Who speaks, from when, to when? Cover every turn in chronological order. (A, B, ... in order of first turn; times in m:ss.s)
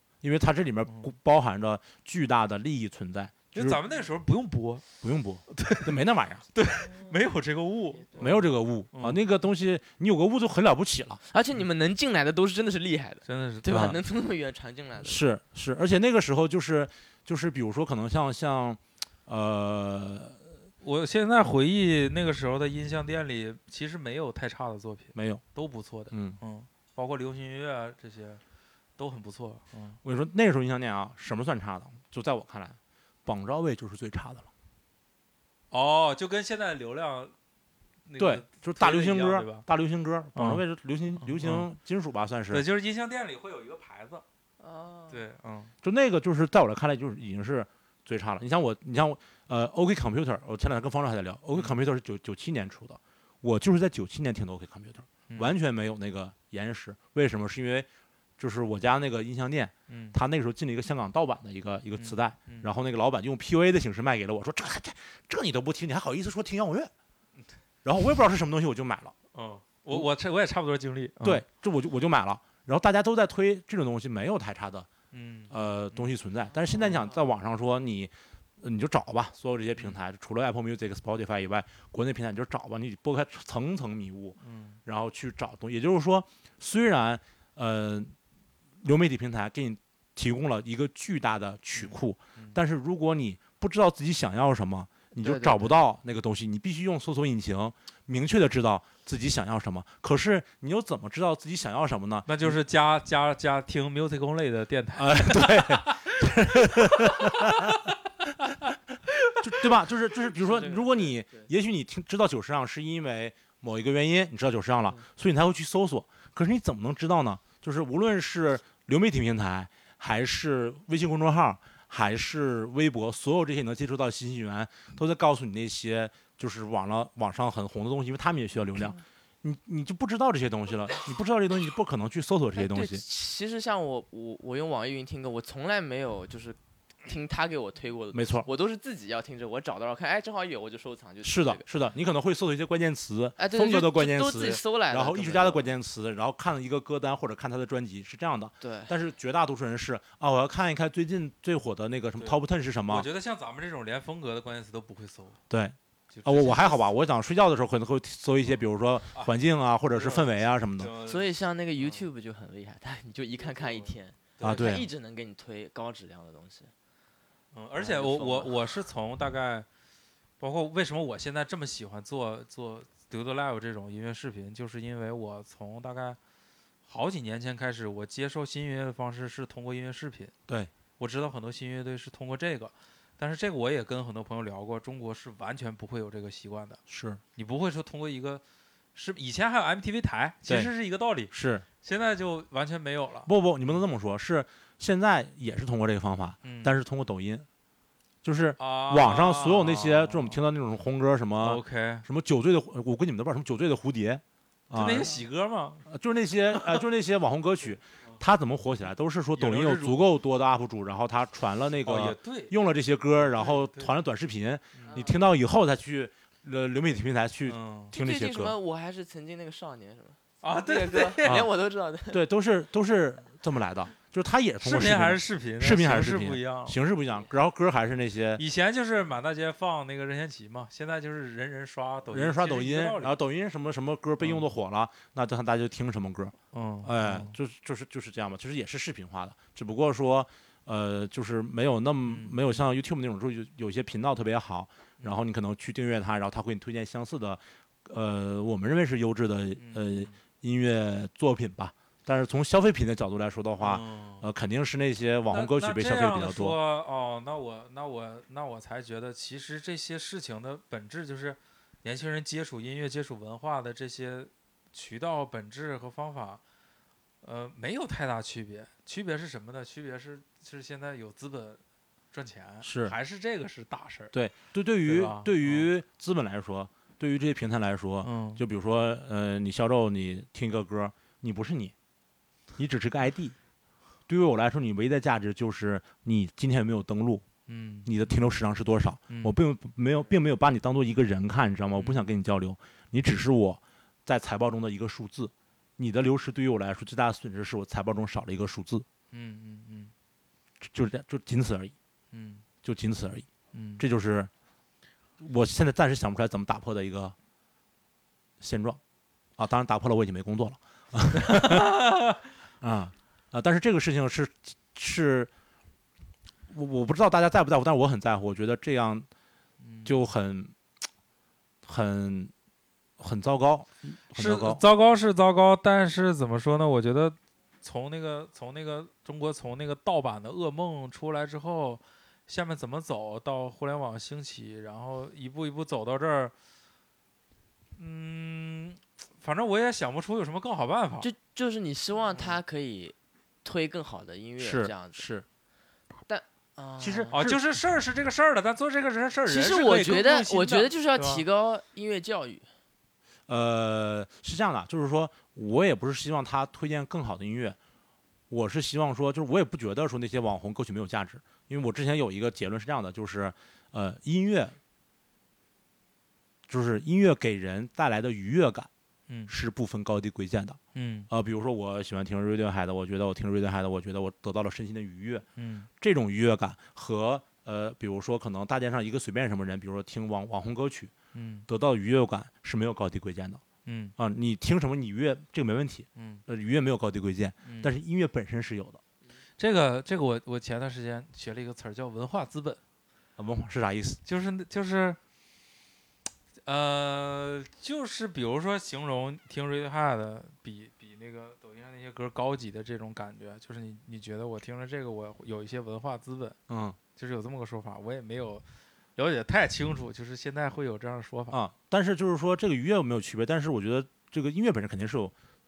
0:00.2-0:03.8 A
0:03.5-0:04.8 B
0:05.0-0:06.4 A
0:05.5-0:06.0 B
0:06.5-0:09.2 B
0:08.2-0:11.2 A
0:11.3-0:15.2 C
0:13.3-0:13.9 B
0:13.7-0:14.0 A
0:15.0-0:20.5 A
0:20.8-0:28.4 B
0:25.1-0:25.4 A
0:26.1-0:26.4 A
0:29.0-0:30.0 B
0:30.0-0:34.5 A
0:35.7-0:37.3 B
0:38.1-0:39.6 B
0:38.2-0:42.6 A
0:40.3-0:40.6 B
0:41.2-0:41.7 B
0:42.5-0:44.2 B
0:44.6-0:45.2 C
0:45.1-0:45.7 B
0:45.8-0:57.9 A
0:51.5-0:51.8 B
0:55.3-0:55.5 B
0:58.4-1:06.9 A
0:59.9-1:00.2 B
1:02.0-1:02.7 B
1:07.8-1:09.1 A
1:09.3-1:11.4 B
1:11.2-1:14.9 A
1:15.1-1:16.1 B
1:15.5-1:28.1 A
1:16.7-1:17.1 B
1:24.4-1:24.8 B
1:28.8-1:42.6 A
1:31.7-1:32.6 B
1:35.2-1:35.7 C
1:42.3-1:47.8 B
1:45.0-1:47.9 A
1:49.4-2:13.0 A
1:50.4-1:51.5 C
2:12.5-2:21.6 C
2:18.1-2:18.5 A
2:21.2-2:33.1 A
2:23.4-2:25.7 C
2:28.6-2:28.9 C
2:32.2-2:35.4 B
2:35.5-2:40.9 A
2:36.1-2:36.8 B
2:39.9-2:42.0 B
2:41.0-2:46.7 C
2:43.4-2:44.7 B
2:44.4-2:44.9 A
2:47.5-2:49.6 B
2:47.8-2:48.6 C
2:50.4-2:56.2 B
2:56.8-3:00.3 B
3:01.0-3:06.8 B
3:06.9-3:07.2 A
3:07.4-3:08.4 B
3:08.9-3:13.8 B
3:10.4-3:10.7 A
3:11.3-3:11.6 A
3:13.2-3:17.4 A
3:16.4-3:16.7 B
3:18.2-3:25.2 A
3:18.6-3:20.4 B
3:21.4-3:22.0 B
3:24.7-3:25.9 B
3:25.9-3:38.5 A
3:26.5-3:26.8 B
3:29.3-3:30.1 B
3:31.8-3:32.5 B
3:33.1-3:33.9 B
3:34.7-3:35.1 B
3:34.8-3:35.2 C
3:37.4-3:37.9 B
3:37.9-3:42.2 C
3:40.4-3:41.5 B
3:41.2-3:41.5 A
3:42.1-3:48.4 A
3:44.6-3:46.8 B
3:48.4-3:53.1 B
3:52.1-4:16.6 A
3:56.5-3:57.3 B
4:02.0-4:02.6 B
4:09.6-4:10.1 B
4:13.6-4:14.3 B
4:15.3-4:26.4 B
4:27.2-4:31.6 B
4:32.1-4:34.1 B
4:32.6-4:33.0 A
4:34.1-4:41.7 A
4:34.8-4:35.7 B
4:38.0-4:38.4 B
4:42.6-4:43.4 A
4:44.1-4:47.2 A
4:47.5-4:48.1 B
4:47.8-4:58.8 A
4:49.1-4:49.3 B
4:51.7-4:52.1 B
4:59.1-4:59.9 B
5:00.6-5:01.7 A
5:02.1-5:02.4 B
5:02.6-5:03.3 A
5:03.5-5:03.8 B
5:03.8-5:04.3 A
5:05.2-5:07.1 A
5:08.4-5:08.8 A
5:09.4-5:11.8 A
5:11.2-5:12.2 B
5:12.6-5:15.3 A
5:16.5-5:19.1 A
5:19.6-5:20.0 B
5:19.8-5:20.5 A
5:21.6-5:22.3 A
5:23.0-5:24.6 A
5:24.1-5:36.3 B
5:37.8-5:41.1 B
5:41.0-5:45.0 C
5:42.1-5:42.4 B
5:44.4-5:45.2 A
5:46.1-5:47.2 C
5:46.8-5:47.4 A
5:47.1-5:51.2 B
5:49.3-5:52.5 C
5:53.3-5:57.6 A
5:58.3-6:04.6 A
6:06.5-6:08.7 A
6:09.3-6:10.6 A
6:10.7-6:11.1 B
6:11.1-6:15.2 A
6:15.4-6:15.7 B
6:15.8-6:20.9 A
6:21.1-6:21.5 B
6:21.5-6:23.4 A
6:23.6-6:23.9 B
6:24.0-6:28.8 A
6:26.0-6:26.2 B
6:27.4-6:27.7 B
6:29.4-6:32.6 B
6:33.2-6:34.0 A
6:34.0-6:35.0 B
6:36.4-6:46.4 B
6:46.5-6:46.8 A
6:47.0-6:48.4 B
6:49.0-6:51.4 B
6:51.3-6:55.1 A